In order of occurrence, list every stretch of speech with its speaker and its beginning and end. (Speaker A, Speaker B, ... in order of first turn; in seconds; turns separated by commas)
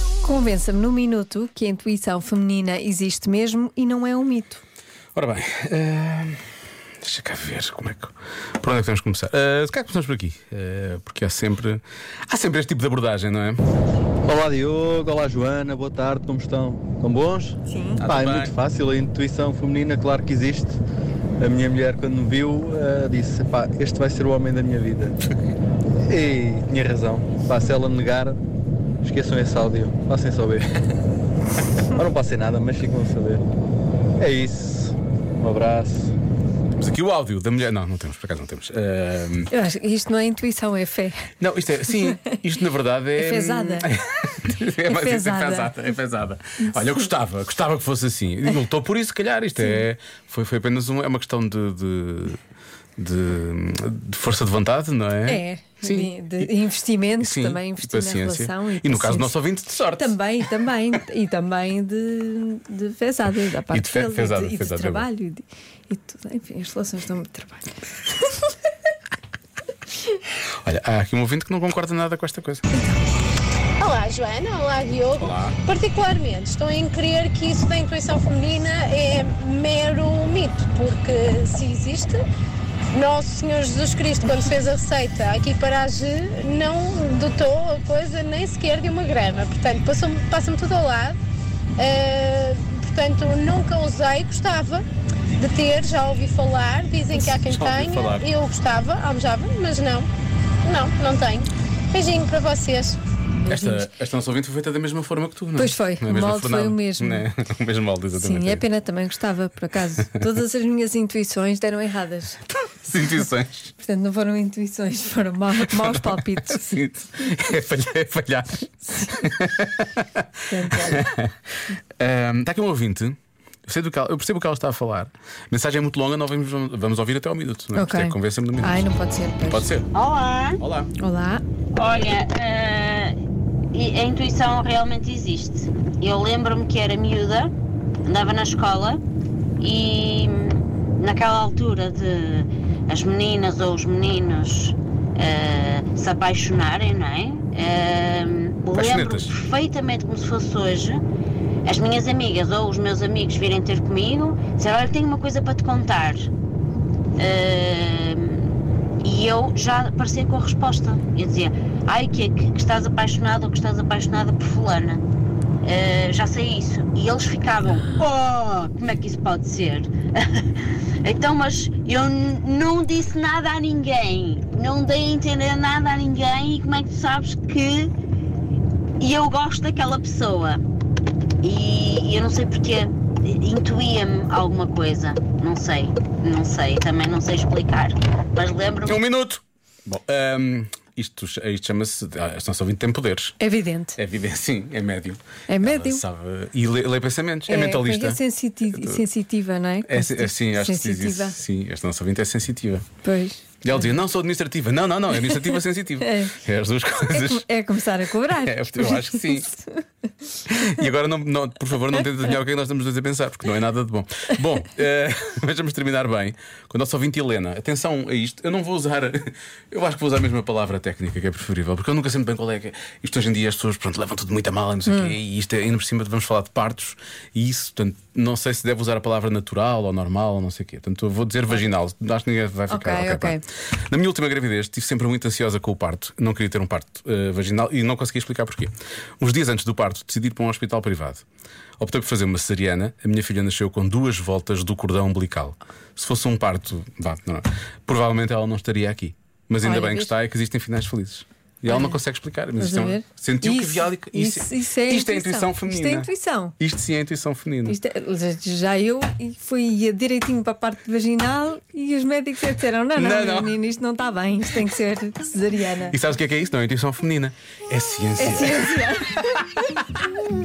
Speaker A: 0.2-4.6, Speaker B: 5.2-6.4, Speaker B: 7.0-13.6, Speaker C: 14.2-20.8, Speaker A: 17.7-18.0, Speaker B: 18.0-18.5, Speaker C: 21.4-25.2, Speaker C: 26.1-28.4, Speaker C: 29.0-30.6, Speaker C: 31.9-33.4, Speaker C: 34.2-36.1, Speaker B: 36.7-39.5, Speaker A: 39.5-41.3, Speaker B: 41.4-52.4, Speaker A: 42.0-42.4, Speaker A: 43.2-43.9, Speaker A: 44.8-45.8, Speaker B: 53.0-56.1, Speaker A: 55.3-59.4, Speaker B: 57.2-60.2, Speaker A: 59.9-67.8, Speaker B: 63.7-65.1, Speaker B: 70.7-72.8, Speaker D: 73.8-82.2, Speaker B: 75.2-75.6, Speaker D: 82.9-91.2, Speaker D: 91.8-94.8, Speaker D: 95.4-100.1, Speaker B: 97.4-98.3, Speaker D: 100.7-103.0, Speaker A: 103.5-103.9, Speaker B: 103.5-108.6, Speaker A: 105.5-107.3, Speaker A: 108.1-112.4, Speaker B: 112.6-113.7, Speaker A: 113.8-116.8, Speaker B: 115.7-121.3, Speaker A: 120.5-121.1, Speaker B: 122.0-123.2, Speaker B: 123.7-128.9, Speaker A: 127.7-129.7, Speaker B: 129.5-129.9, Speaker E: 129.9-130.6, Speaker B: 130.6-130.9, Speaker A: 131.0-131.4, Speaker E: 131.8-133.2, Speaker E: 133.7-137.5, Speaker E: 138.1-139.0, Speaker E: 139.6-151.0, Speaker B: 148.7-149.3, Speaker E: 151.7-156.3, Speaker E: 157.2-165.0, Speaker E: 165.6-177.9, Speaker E: 179.0-180.6, Speaker E: 181.4-189.0, Speaker B: 188.8-193.4, Speaker A: 193.4-194.0, Speaker B: 194.0-198.2, Speaker A: 195.5-196.0, Speaker A: 197.5-201.4, Speaker B: 198.7-199.0, Speaker B: 199.9-202.9, Speaker A: 203.0-203.9, Speaker B: 203.6-207.5, Speaker A: 205.2-206.4, Speaker A: 207.1-209.8, Speaker B: 208.3-209.5, Speaker B: 210.5-241.2, Speaker A: 224.9-225.2, Speaker A: 232.7-233.4, Speaker B: 241.8-257.8, Speaker A: 249.6-250.1, Speaker A: 251.7-252.0, Speaker A: 252.6-256.6, Speaker A: 257.6-266.0, Speaker B: 263.0-263.6, Speaker B: 265.9-269.4, Speaker A: 268.2-270.1